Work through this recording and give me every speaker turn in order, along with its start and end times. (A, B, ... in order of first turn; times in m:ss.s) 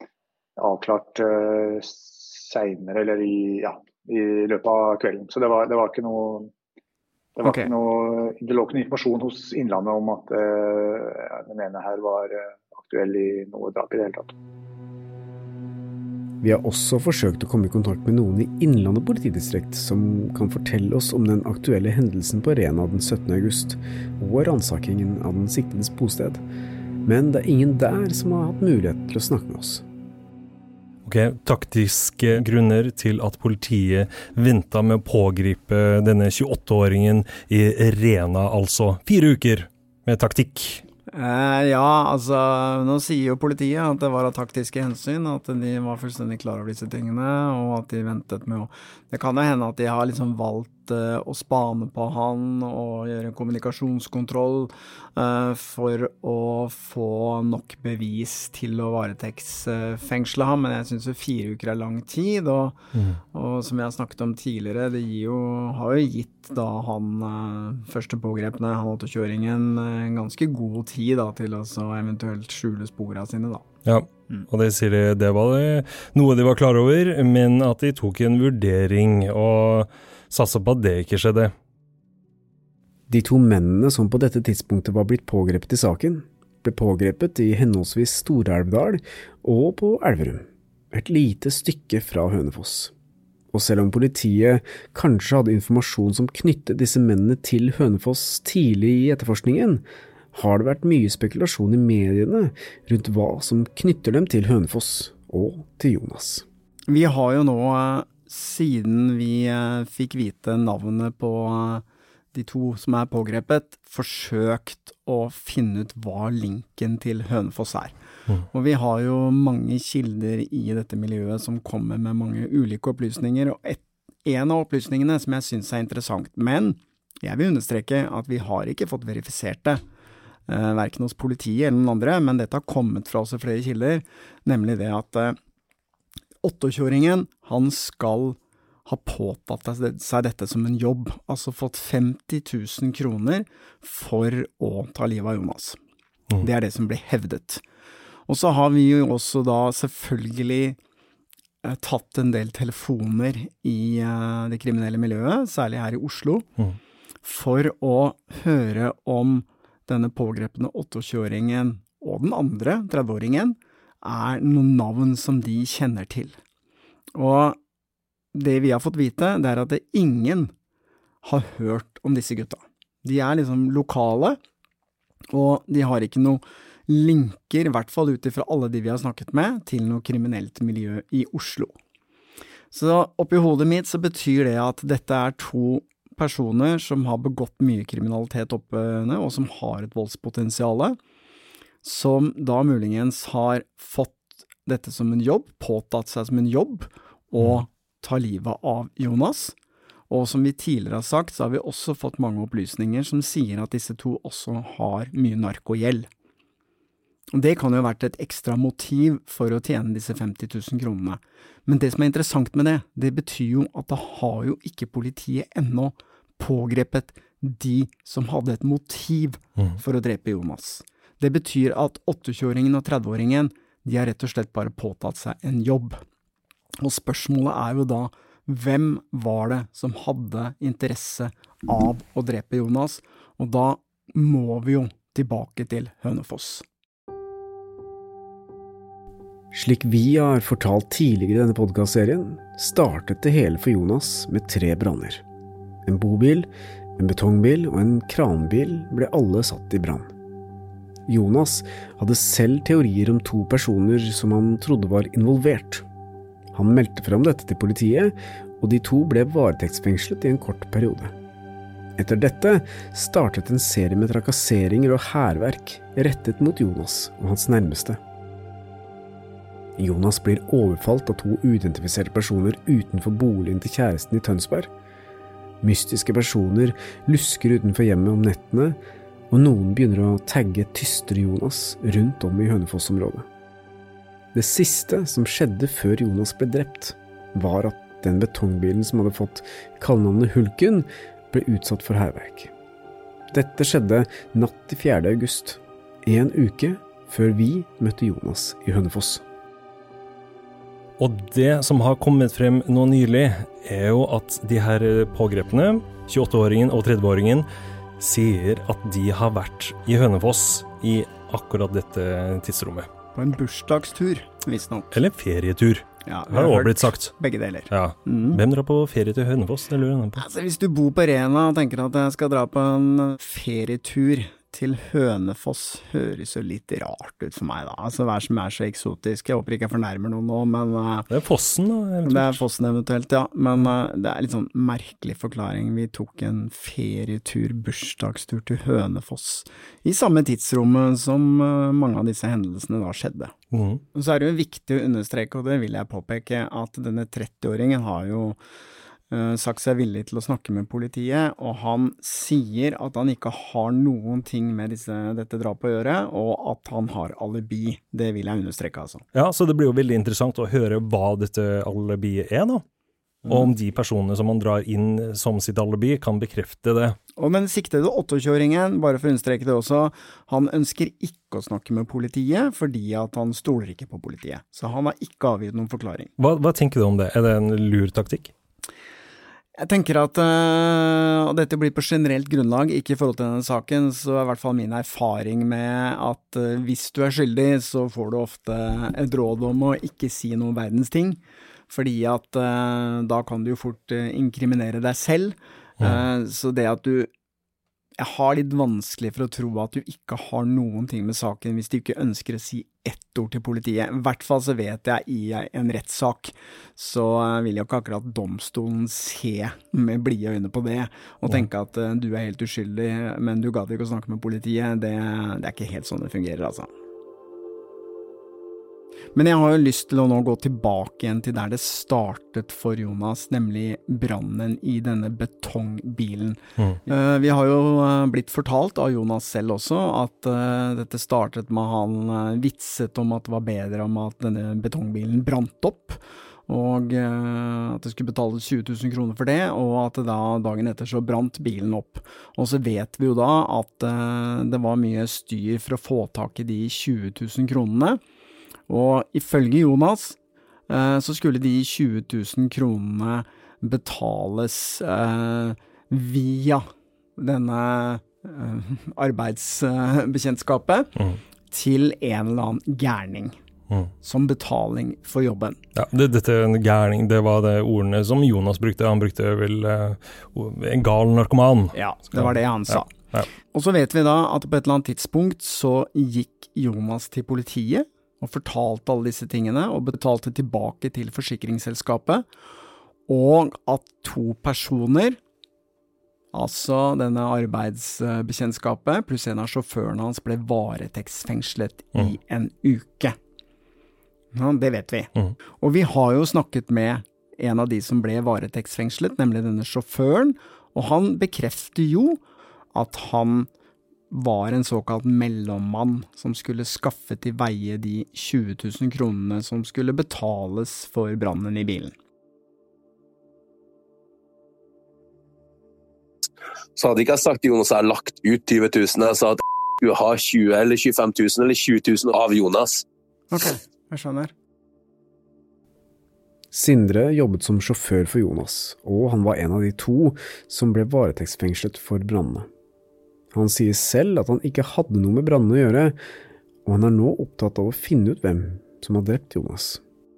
0:00.6-0:06.5 A
0:07.4-0:14.3 A
0:07.4-0:07.7 B
0:16.4-0:26.4 C
0:27.0-0:29.8 C
0:31.0-0:40.8 D
0:41.1-1:02.8 B
1:02.9-1:03.2 D
1:03.3-1:13.6 B
1:13.8-1:21.5 D
1:23.1-1:32.9 C
1:33.5-1:46.4 C
1:46.9-1:57.9 B
1:58.5-2:09.8 B
2:10.5-2:15.4 B
2:16.4-2:25.8 B
2:26.4-2:27.6 B
2:28.3-2:30.8 B
2:31.6-2:36.5 B
2:37.2-2:46.4 B
2:47.1-2:47.6 B
2:48.3-2:50.5 B
2:51.2-2:54.4 B
2:55.3-3:01.7 B
3:02.7-3:11.0 B
3:11.8-3:19.6 B
3:20.1-3:26.1 B
3:27.3-3:46.0 B
3:46.8-3:56.6 B
3:59.5-4:05.2 C
4:05.8-4:10.1 C
4:11.1-4:15.8 C
4:16.5-4:21.1 C
4:22.0-4:28.0 C
4:29.8-4:34.7 C
4:35.6-4:38.8 C
4:39.3-4:43.3 C
4:44.3-4:52.5 C
4:53.3-4:59.2 C
5:01.0-5:07.4 D
5:08.0-5:12.9 D
5:13.1-5:14.9 B
5:14.9-5:17.2 D
5:16.0-5:18.4 B
5:17.7-5:20.2 D
5:20.2-5:31.1 B
5:31.1-5:32.4 D
5:32.0-5:43.3 B
5:43.5-5:43.8 D
5:43.9-5:48.4 B
5:49.1-5:59.0 B
5:59.1-6:02.6 D
6:03.2-6:07.0 D
6:07.2-6:16.1 B
6:16.2-6:18.3 D
6:19.6-6:37.1 B
6:38.0-6:56.7 B
6:59.1-7:28.0 B
7:28.7-7:30.2 B
7:30.7-7:40.9 B
7:41.5-7:43.4 B
7:44.0-7:45.6 B
7:45.7-7:53.3 D
7:51.7-7:52.9 B
7:53.5-8:02.2 B
8:03.1-8:05.2 B
8:06.3-8:13.2 B
8:14.3-8:22.2 B
8:22.7-8:23.5 B
8:24.1-8:31.9 B
8:36.8-8:42.8 E
8:43.3-8:44.3 B
8:46.5-8:52.5 C
8:53.3-8:56.0 C
8:56.6-8:59.8 C